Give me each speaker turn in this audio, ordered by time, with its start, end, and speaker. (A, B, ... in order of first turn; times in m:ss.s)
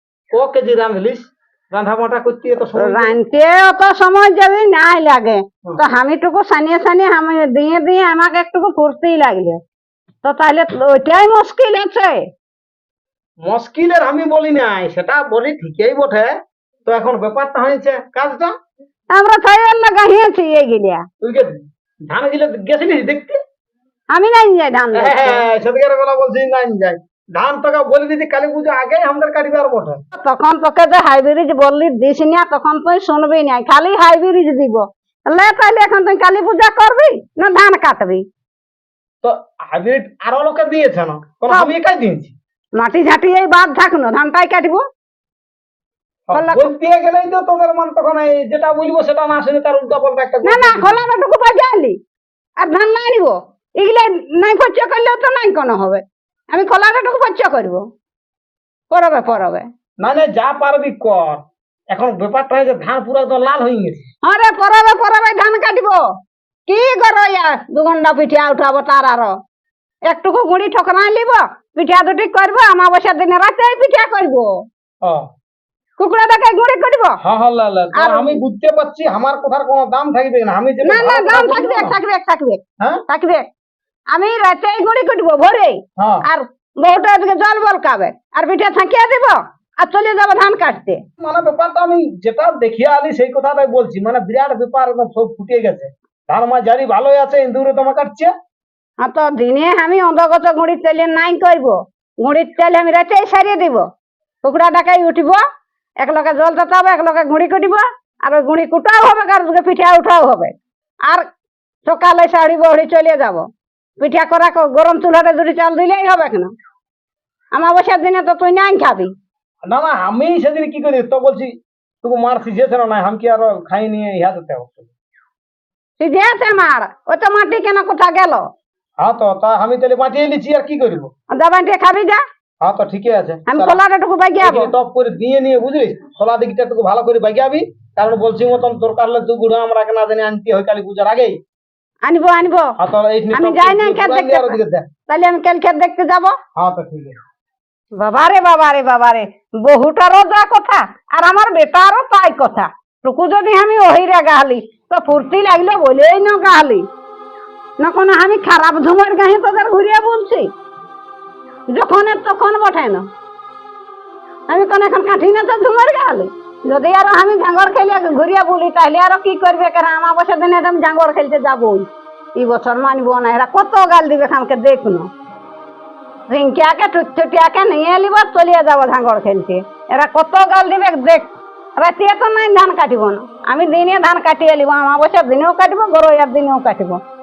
0:00.3-0:03.2 A
0:02.8-0:09.6 B
0:10.2-0:12.2 B
0:13.4-0:16.3 A
0:16.8-0:18.5 A
0:19.1-0:21.0 B
0:21.2-0:21.5 A
0:22.1-0:23.4 A
0:24.1-0:25.4 B
0:24.9-0:30.0 A
0:30.2-0:38.2 B
0:39.2-0:42.3 A
0:42.8-0:44.8 B
0:46.3-0:51.0 A
0:46.3-0:46.7 B
0:50.4-0:52.0 B
0:52.6-0:57.8 B
0:58.9-0:59.6 B
1:00.0-1:04.1 A
1:04.2-1:06.0 B
1:06.7-1:09.3 B
1:10.1-1:14.5 B
1:16.0-1:17.2 B
1:17.2-1:22.0 A
1:17.9-1:18.4 B
1:20.8-1:23.5 B
1:24.1-1:31.0 B
1:26.0-1:26.2 A
1:31.2-1:38.3 A
1:39.0-1:43.8 B
1:44.4-1:45.4 B
1:46.0-1:50.5 B
1:51.9-1:53.4 B
1:54.0-1:56.5 B
1:57.5-1:59.1 B
1:59.6-2:04.9 A
2:06.0-2:08.4 B
2:09.0-2:11.1 A
2:11.3-2:12.2 B
2:12.6-2:13.8 A
2:13.5-2:14.7 B
2:14.4-2:21.4 A
2:22.0-2:22.7 B
2:22.8-2:24.9 A
2:23.3-2:26.4 B
2:26.6-2:27.2 A
2:28.0-2:36.8 B
2:37.8-2:40.5 B
2:41.7-2:43.0 B
2:44.5-2:55.1 B
2:56.3-3:01.3 B
3:01.8-3:07.0 B